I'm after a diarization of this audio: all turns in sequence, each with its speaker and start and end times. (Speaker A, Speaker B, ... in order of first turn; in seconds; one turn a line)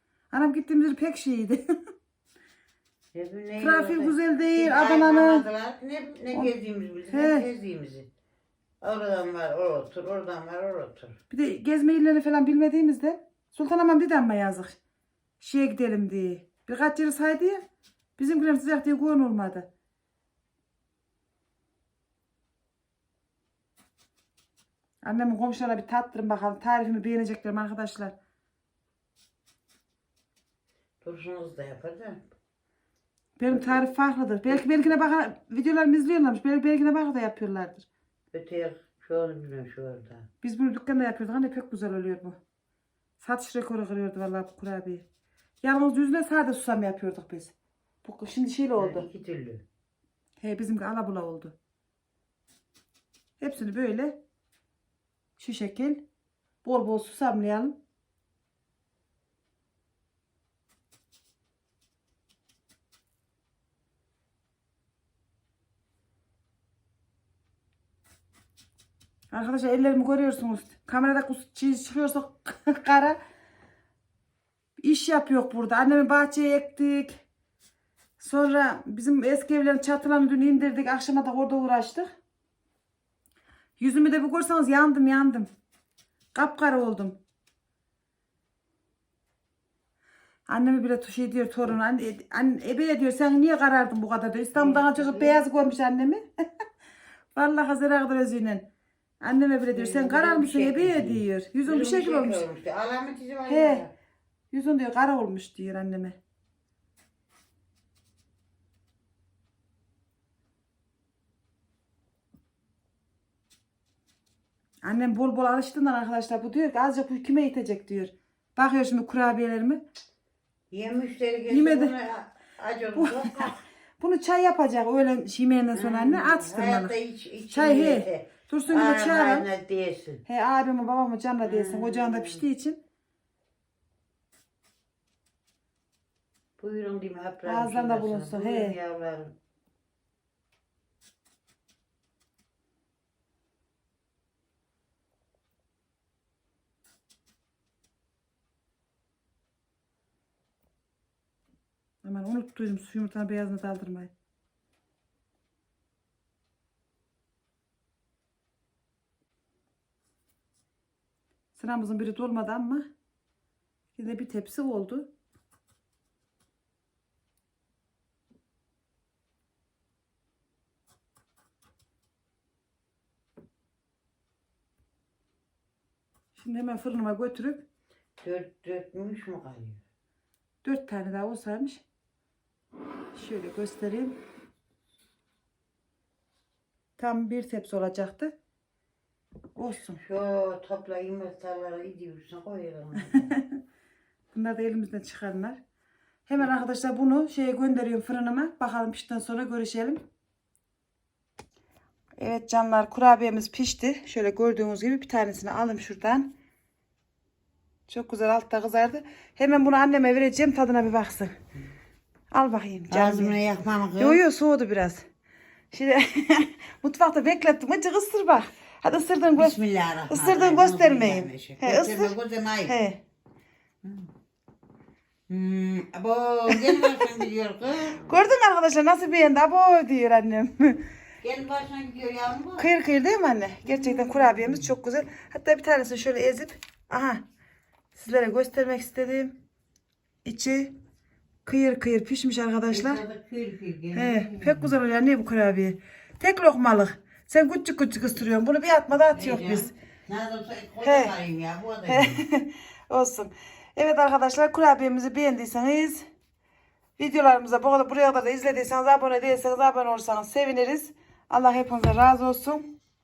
Speaker A: 0.3-1.6
Speaker B: 3.1-8.1
Speaker A: 3.6-5.5
Speaker A: 7.1-7.5
Speaker B: 8.8-11.2
Speaker A: 11.3-14.8
Speaker A: 15.4-17.6
Speaker A: 18.2-19.7
Speaker A: 25.0-28.1
Speaker B: 31.0-32.3
Speaker A: 33.4-37.9
Speaker B: 38.3-40.3
Speaker A: 40.4-42.4
Speaker A: 43.2-45.0
Speaker A: 45.6-49.1
Speaker B: 48.8-49.6
Speaker A: 50.4-51.5
Speaker A: 53.4-54.2
Speaker A: 55.4-56.0
Speaker A: 56.6-57.8
Speaker A: 69.3-73.2
Speaker A: 74.8-77.2
Speaker A: 78.2-82.1
Speaker A: 83.8-85.5
Speaker A: 86.3-87.2
Speaker A: 90.5-96.2
Speaker B: 94.5-95.4
Speaker A: 97.3-98.7
Speaker A: 99.2-102.4
Speaker B: 99.7-103.9
Speaker A: 103.5-103.8
Speaker A: 104.5-106.2
Speaker A: 114.8-119.8
Speaker B: 120.7-123.6
Speaker A: 121.5-121.9
Speaker A: 122.9-127.0
Speaker B: 125.7-130.2
Speaker A: 127.5-129.5
Speaker A: 130.2-132.8
Speaker B: 131.4-132.4
Speaker B: 136.6-139.4
Speaker A: 137.4-138.8
Speaker A: 152.0-154.1
Speaker A: 161.5-162.9
Speaker A: 163.9-165.1
Speaker A: 176.3-177.6
Speaker B: 178.2-179.8
Speaker A: 180.6-181.8
Speaker A: 183.1-184.2
Speaker A: 187.0-188.3
Speaker A: 189.6-190.0
Speaker B: 189.9-193.3
Speaker A: 193.1-193.4
Speaker A: 194.3-195.6
Speaker A: 196.3-200.0
Speaker A: 202.2-206.3
Speaker A: 207.9-211.3
Speaker A: 212.3-213.4
Speaker B: 212.9-214.2
Speaker A: 214.0-215.0
Speaker A: 215.7-219.6
Speaker B: 219.3-222.8
Speaker A: 220.1-222.1
Speaker A: 222.7-223.0
Speaker B: 223.8-224.1
Speaker B: 225.3-228.2
Speaker A: 226.5-227.0
Speaker A: 228.0-230.8
Speaker B: 231.2-232.7
Speaker A: 232.6-237.2
Speaker B: 233.7-234.7
Speaker A: 237.9-239.4
Speaker A: 240.2-240.7
Speaker A: 241.4-243.0
Speaker B: 242.7-244.7
Speaker A: 243.9-249.7
Speaker B: 249.1-252.2
Speaker A: 250.8-251.1
Speaker A: 251.9-256.1
Speaker A: 257.0-262.7